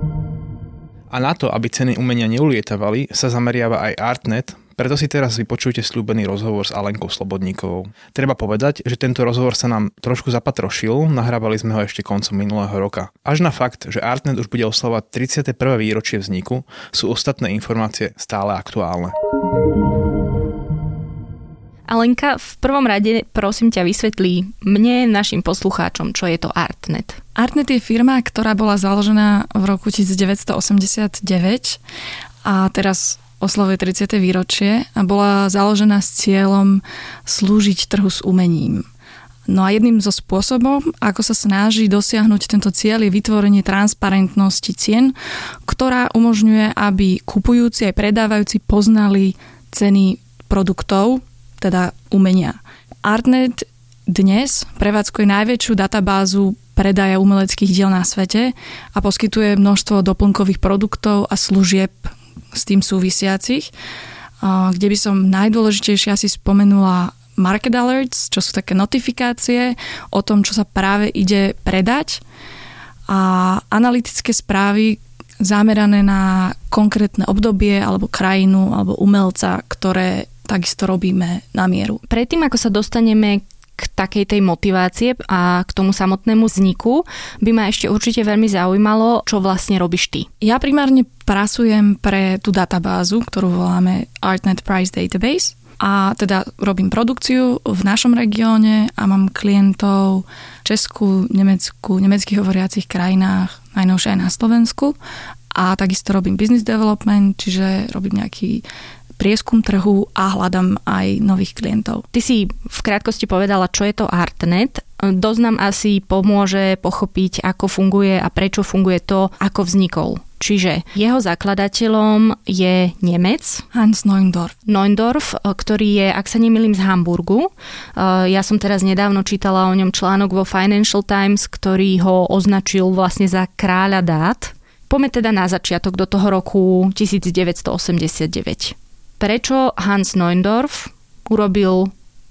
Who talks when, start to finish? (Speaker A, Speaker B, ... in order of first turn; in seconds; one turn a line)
Speaker A: 1.1-19.1
Speaker B: 21.9-27.2
Speaker C: 27.4-31.8
Speaker C: 32.4-38.8
Speaker C: 39.5-45.1
Speaker C: 45.7-63.7
Speaker C: 64.4-72.2
Speaker C: 73.1-82.0
Speaker B: 82.1-90.3
Speaker C: 90.4-105.0
Speaker C: 105.5-108.6
Speaker C: 109.2-112.0
Speaker B: 112.1-123.7
Speaker C: 123.7-124.5
Speaker B: 124.7-141.9